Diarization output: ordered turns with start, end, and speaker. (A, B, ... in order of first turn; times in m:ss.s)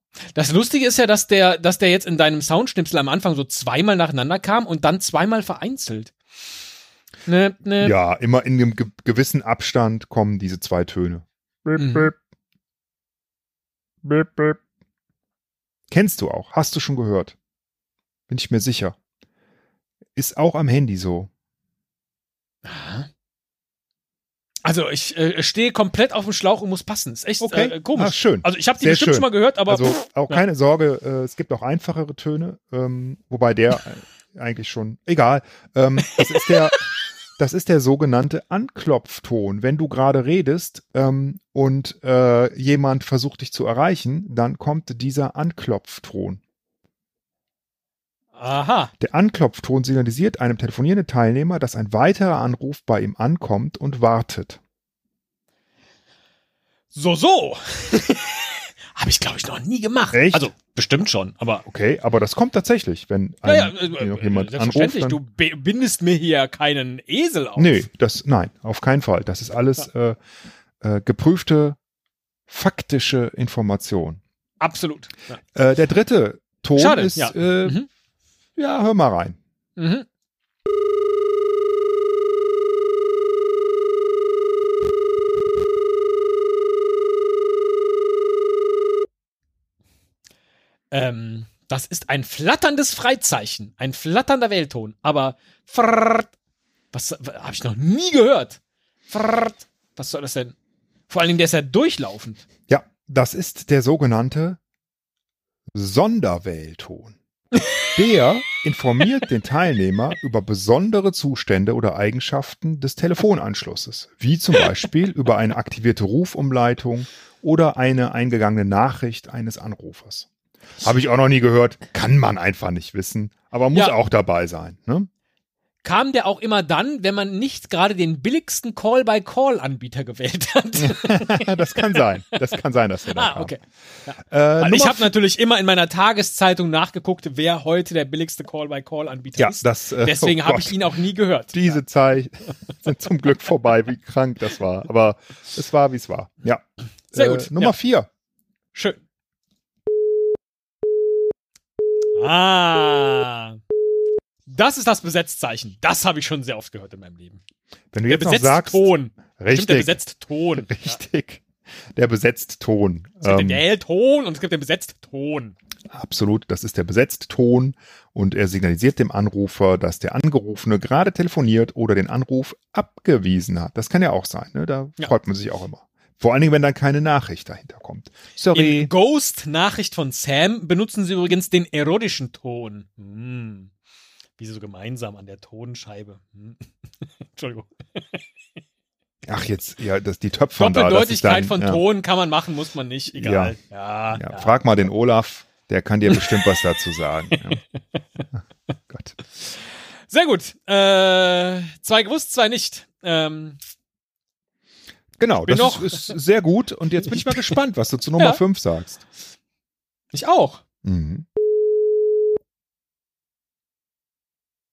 0:00.4-0:06.1 A
0:07.3-0:07.9 A
0:07.8-0:12.2 B
0:11.8-0:12.1 A
0:14.0-0:14.6 B
0:15.9-0:17.4 B
0:18.3-0:19.0 B
0:20.2-0:21.3 B
0:22.6-0:23.1 A
0:24.6-0:30.4 A
0:27.4-0:36.8 B
0:37.4-0:46.4 B
0:48.4-0:48.9 A
0:49.0-0:54.6 B
0:56.9-1:01.6 A
1:00.1-1:00.5 B
1:01.6-1:05.2 B
1:03.4-1:07.9 A
1:07.6-1:10.2 B
1:10.8-1:11.8 B
1:12.5-1:14.2 B
1:14.6-1:15.4 A
1:15.5-1:17.8 B
1:16.8-1:17.9 A
1:18.6-1:19.4 B
1:19.8-1:20.1 A
1:30.9-1:36.3 A
1:36.9-1:40.6 A
1:41.1-1:42.4 A
1:42.7-1:44.6 B
1:45.7-1:47.2 B
1:47.9-2:00.3 B
2:00.8-2:05.1 B
2:05.8-2:12.1 A
2:10.8-2:13.6 B
2:13.1-2:21.8 A
2:14.3-2:15.1 B
2:19.4-2:20.9 B
2:21.5-2:28.1 B
2:27.1-2:27.8 A
2:28.7-2:29.0 A
2:32.2-2:33.6 A
2:34.5-2:37.4 A
2:37.9-2:40.0 B
2:38.1-2:41.0 A
2:40.6-2:43.6 B
2:43.2-2:45.6 A
2:45.9-2:58.9 B
2:58.5-3:03.7 A
3:04.4-3:06.7 A
3:07.3-3:08.2 A
3:09.3-3:11.8 B
3:10.6-3:14.5 A
3:13.1-3:13.6 B
3:14.1-3:17.6 B
3:17.3-3:17.8 A
3:18.9-3:19.2 B
3:20.1-3:23.6 A
3:25.2-3:29.0 B
3:25.4-3:26.2 A
3:27.1-3:27.5 A
3:30.1-3:30.6 A
3:30.8-3:31.2 B